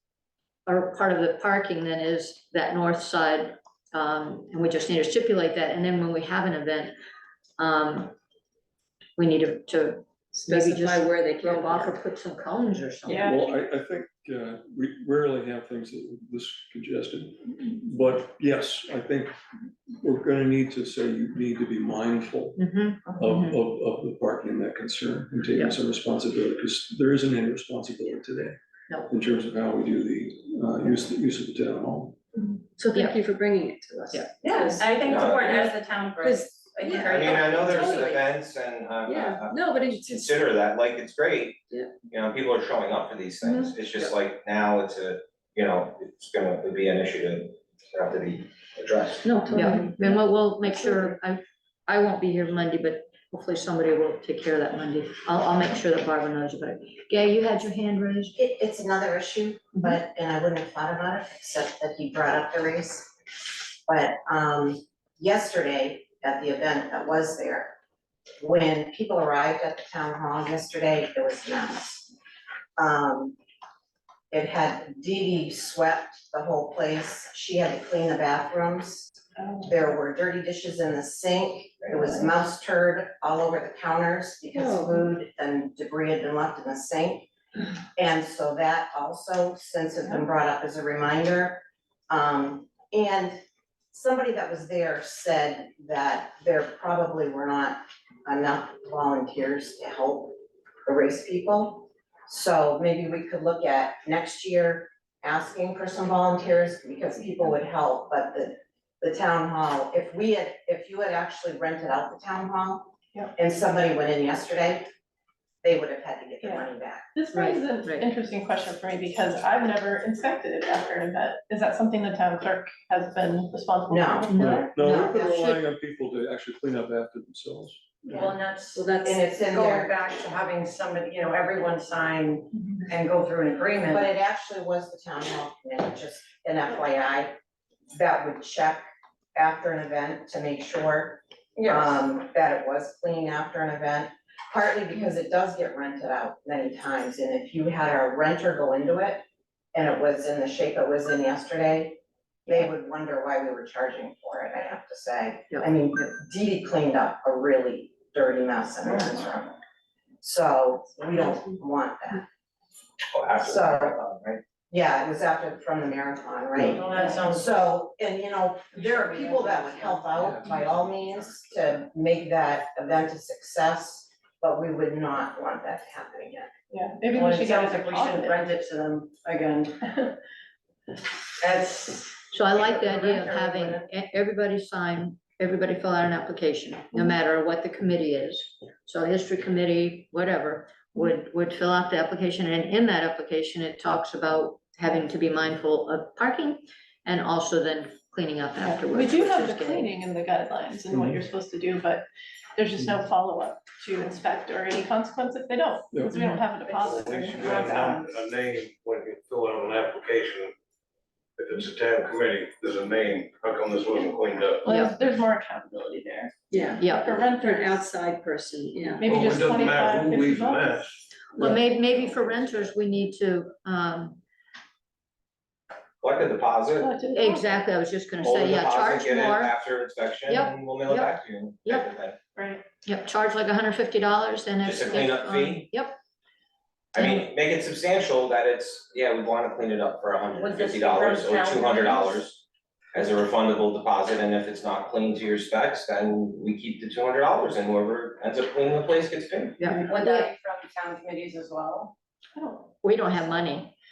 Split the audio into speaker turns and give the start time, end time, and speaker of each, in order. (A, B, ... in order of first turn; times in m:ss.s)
0:00.7-0:07.0 A
0:07.6-0:08.2 A
0:09.2-0:13.3 A
0:10.3-0:12.0 B
0:13.1-0:19.3 C
0:13.1-0:13.4 D
0:20.0-0:32.2 C
0:22.6-0:23.6 A
0:32.8-0:35.7 B
0:34.4-0:38.0 E
0:35.0-0:35.7 F
0:36.2-0:38.1 B
0:37.0-0:49.3 F
0:39.1-0:40.3 B
0:43.4-0:43.7 B
0:49.2-0:51.1 B
0:49.5-0:58.3 A
0:58.4-1:03.1 G
1:03.8-1:07.8 G
1:08.4-1:12.1 G
1:12.8-1:13.4 G
1:14.3-1:27.3 G
1:19.4-1:19.8 D
1:24.5-1:25.0 B
1:28.0-1:33.4 G
1:33.9-1:54.9 G
1:55.6-1:57.1 G
1:56.4-2:04.7 D
1:57.3-1:58.1 A
2:03.9-2:05.6 G
2:04.3-2:05.3 A
2:04.3-2:07.8 C
2:08.1-2:14.1 E
2:08.1-2:08.4 G
2:08.8-2:09.3 B
2:09.0-2:09.9 G
2:13.9-2:17.3 G
2:17.9-2:18.8 G
2:19.3-2:29.2 G
2:21.6-2:22.0 E
2:29.7-2:39.6 G
2:40.2-2:42.3 G
2:43.1-2:44.4 F
2:43.4-2:44.0 G
2:44.7-2:56.5 G
2:46.6-2:47.6 E
2:48.8-2:49.6 E
2:50.2-2:51.7 C
2:56.7-2:58.4 D
2:57.1-2:59.8 E
3:01.4-3:03.8 E
3:02.3-3:19.9 A
3:18.6-3:28.2 D
3:20.9-3:21.2 C
3:25.9-3:26.2 C
3:26.1-3:26.4 A
3:26.7-3:30.5 H
3:31.4-3:34.7 H
3:34.6-3:37.9 D
3:34.7-3:34.9 A
3:36.5-3:39.0 B
3:36.8-3:37.2 A
3:39.0-3:40.8 D
3:39.0-3:41.0 H
3:41.4-3:44.2 A
3:42.3-3:42.6 F
3:46.0-3:46.9 F
3:46.8-3:47.6 D
3:47.1-3:49.5 A
3:48.2-3:52.2 F
3:50.3-3:51.1 A
3:52.4-3:52.6 D
3:52.8-3:56.0 A
3:54.6-3:55.7 F
3:56.9-4:09.6 F
3:57.0-3:57.2 A
4:00.4-4:02.2 E
4:09.6-4:10.3 A
4:09.9-4:11.9 E
4:12.4-4:12.7 D
4:12.8-4:13.7 A